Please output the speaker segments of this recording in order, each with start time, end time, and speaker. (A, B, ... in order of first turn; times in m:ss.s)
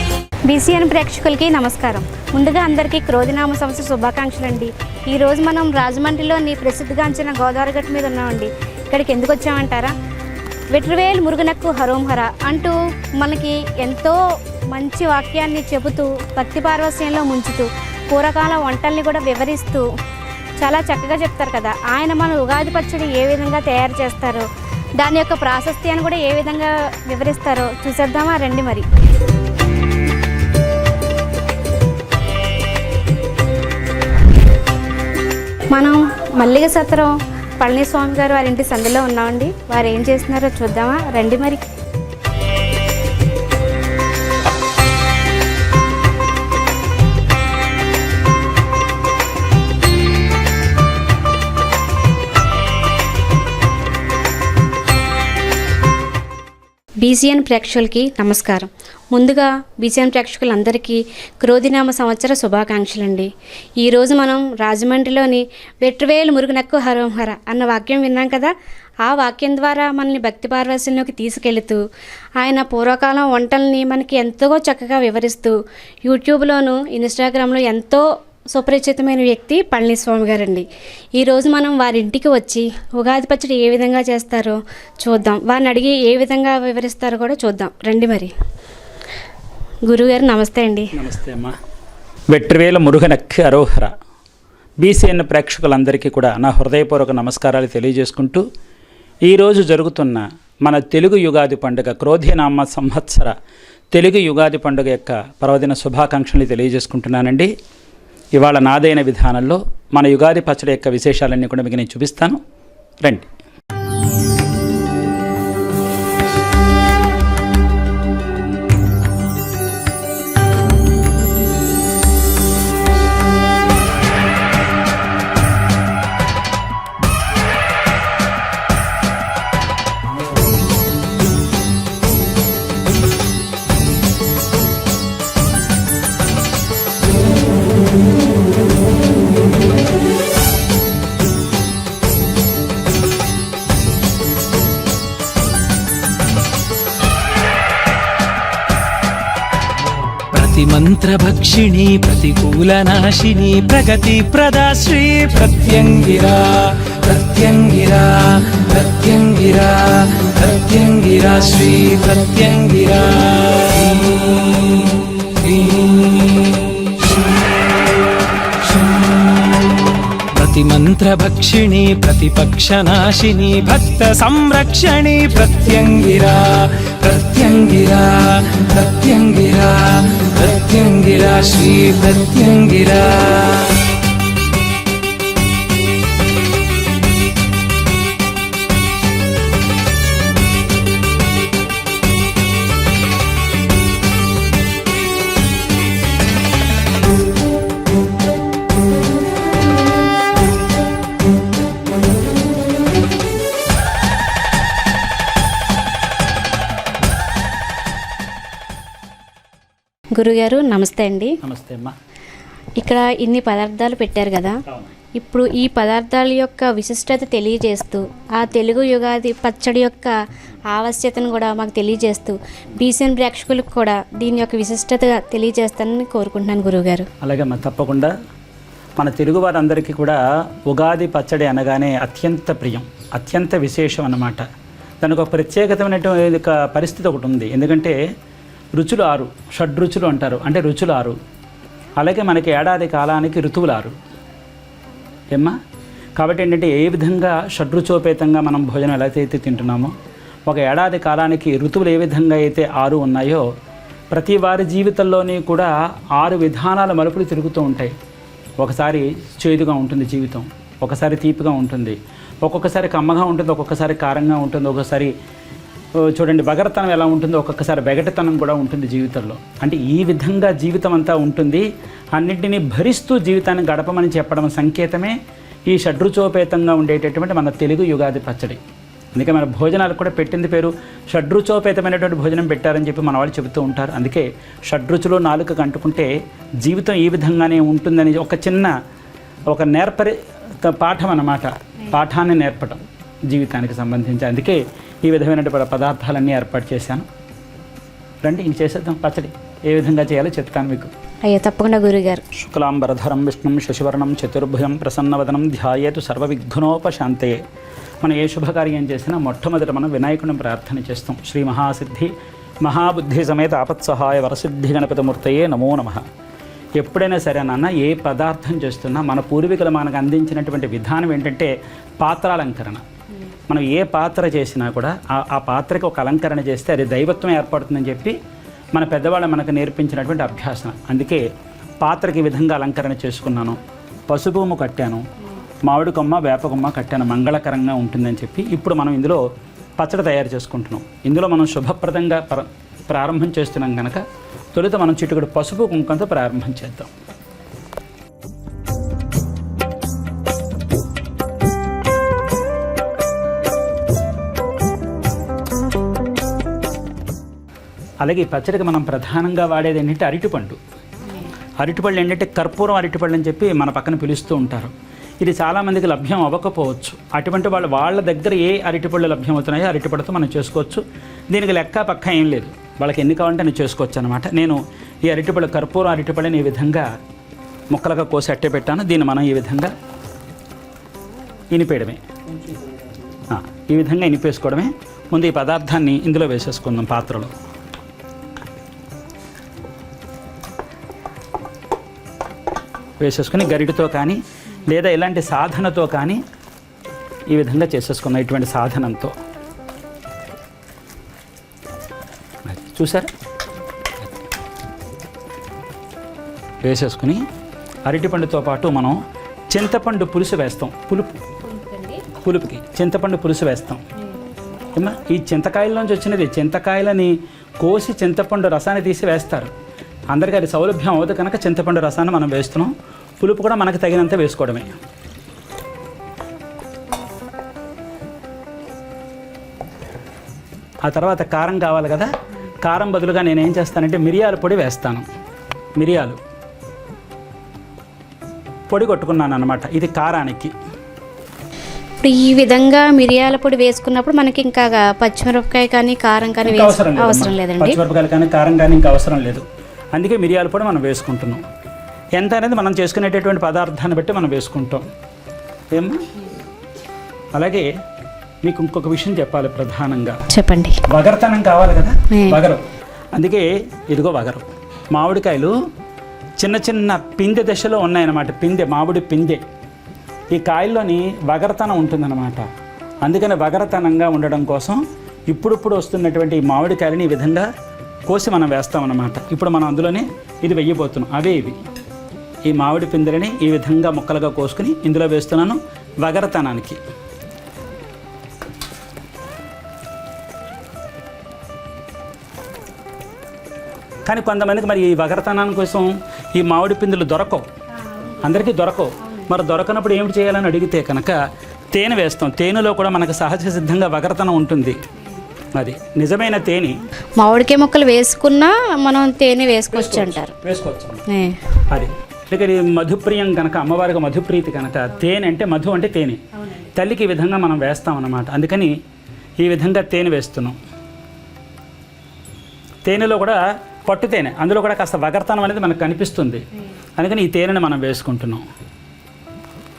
0:00.5-0:09.9 A
0:10.7-0:19.9 A
0:20.6-0:28.9 A
0:35.7-0:41.6 A
0:57.0-1:08.5 A
1:09.0-1:11.8 A
1:12.4-1:28.3 A
1:29.8-1:30.9 A
1:30.9-1:31.6 B
1:32.3-1:33.9 B
1:34.8-1:38.4 B
1:39.2-1:43.4 B
1:43.9-1:47.5 B
1:48.4-1:52.4 B
2:30.3-2:47.2 C
2:48.6-3:03.8 C
3:30.1-3:31.4 A
3:31.4-3:32.0 B
3:32.8-3:34.6 A
3:35.2-3:40.2 A
3:40.7-3:47.1 A
3:47.2-3:48.1 B
3:49.0-3:54.4 B
3:55.0-3:58.0 B
3:58.8-4:01.2 B
4:02.0-4:03.9 B
4:06.2-4:09.9 B
4:10.5-4:13.5 B
4:14.1-4:17.9 B
4:18.6-4:25.1 B
4:26.0-4:38.6 B
4:39.1-4:46.1 B
4:46.6-4:48.7 B
4:49.5-4:57.0 B
4:58.2-5:00.9 B
5:01.2-5:02.2 A
5:02.3-5:07.4 B
5:08.0-5:12.1 B
5:12.6-5:16.0 B
5:16.8-5:22.8 B
5:23.5-5:28.2 B
5:28.7-5:31.2 B
5:31.8-5:35.1 B
5:35.6-5:39.2 B
5:39.8-5:46.9 B
5:58.0-6:00.6 B
6:01.6-6:16.9 B
6:17.7-6:19.7 B
6:21.5-6:22.0 B
6:23.3-6:27.3 B
6:33.0-6:36.2 B
6:37.3-6:39.2 B
6:42.4-6:43.1 B
6:46.6-6:47.2 B
6:47.8-6:49.0 B
6:49.5-6:51.2 B
6:51.4-6:52.0 A
6:52.2-6:53.8 B
6:54.7-6:59.5 B
7:00.1-7:04.7 B
7:10.8-7:12.1 B
7:12.6-7:15.0 B
7:15.8-7:16.2 B
7:18.7-7:20.5 B
7:22.0-7:27.8 A
7:26.4-7:31.4 B
7:32.2-7:34.8 B
7:35.7-7:36.0 B
7:37.3-7:37.7 B
7:38.4-7:40.2 B
7:40.3-7:40.8 A
7:40.9-7:45.5 B
7:42.1-7:42.4 A
7:46.4-7:49.4 B
7:50.3-7:52.4 B
7:53.0-7:57.5 B
7:58.1-8:01.6 B
8:02.5-8:06.8 B
8:14.0-8:17.4 B
8:17.9-8:18.3 A
8:18.2-8:21.2 B
8:19.0-8:19.3 A
8:21.7-8:24.8 B
8:25.5-8:26.8 B
8:27.2-8:30.3 A
8:29.7-8:31.0 B
8:31.1-8:31.4 A
8:31.7-8:38.8 B
8:36.3-8:36.7 A
8:39.4-8:40.6 B
8:42.8-8:46.4 B
8:47.0-8:48.4 B